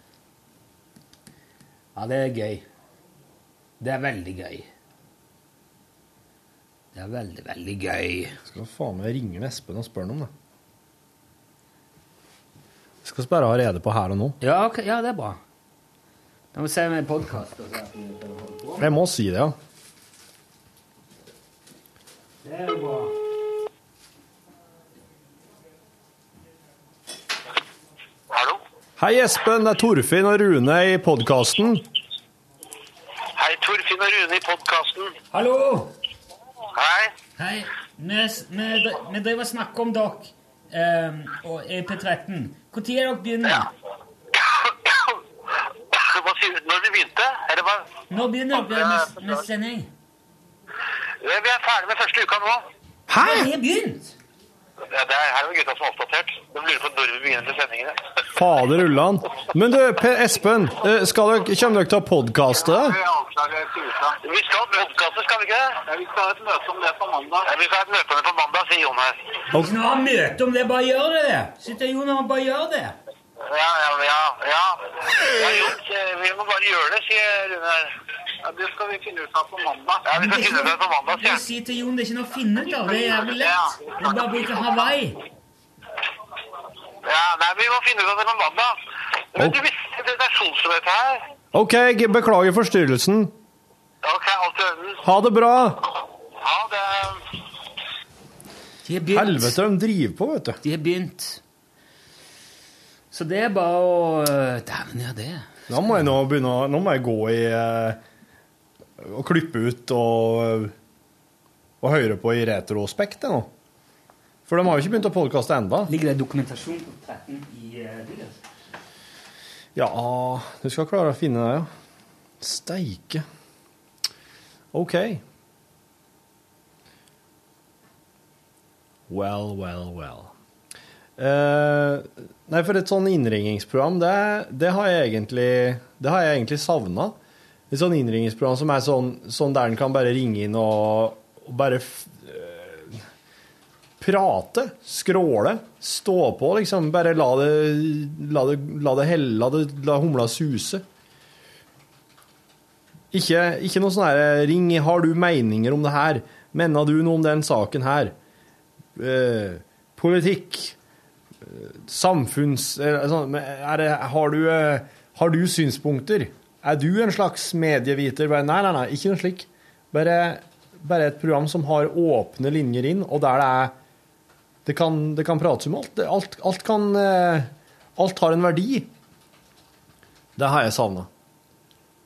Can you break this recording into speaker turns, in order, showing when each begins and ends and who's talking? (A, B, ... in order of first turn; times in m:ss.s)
0:02.0-0:02.6 A
0:03.8-0:04.7 A
0:06.9-0:08.4 A
0:08.5-0:10.3 B
0:13.0-0:14.4 B
0:14.4-0:15.4 A
0:16.5-0:18.9 A
0:18.8-0:19.6 B
0:22.4-0:23.1 A
0:28.3-0:28.6 C
0:29.0-0:31.9 B
0:33.4-0:35.2 C
0:35.3-0:35.9 A
0:36.8-0:37.1 C
0:37.4-0:43.7 A
0:44.3-0:47.9 C
0:48.1-0:49.9 A
0:48.9-0:49.3 C
0:51.2-0:52.7 C
0:53.1-0:53.5 B
0:53.2-0:54.1 A
0:54.9-0:58.0 C
0:58.4-1:03.0 B
1:02.8-1:09.4 C
1:09.5-1:13.0 A
1:13.4-1:21.4 C
1:20.1-1:25.2 A
1:22.9-1:24.7 C
1:27.0-1:28.8 C
1:29.3-1:31.3 C
1:31.5-1:33.3 B
1:34.0-1:35.0 C
1:35.0-1:35.8 B
1:36.4-1:37.3 C
1:38.8-1:39.6 A
1:39.1-1:40.6 B
1:40.6-1:41.4 A
1:43.1-1:46.0 A
1:45.7-1:48.0 B
1:49.0-1:50.7 B
1:51.8-1:53.5 B
1:54.5-1:55.9 B
1:55.9-1:58.4 A
1:59.8-2:01.7 B
2:02.4-2:03.3 B
2:04.7-2:05.2 B
2:09.1-2:10.3 B
2:11.2-2:17.2 B
2:17.7-2:23.0 B
2:24.0-2:30.8 B
2:33.1-2:38.2 B
2:39.0-2:40.8 B
2:41.4-2:53.8 B
2:54.7-2:58.9 B
3:00.4-3:01.1 B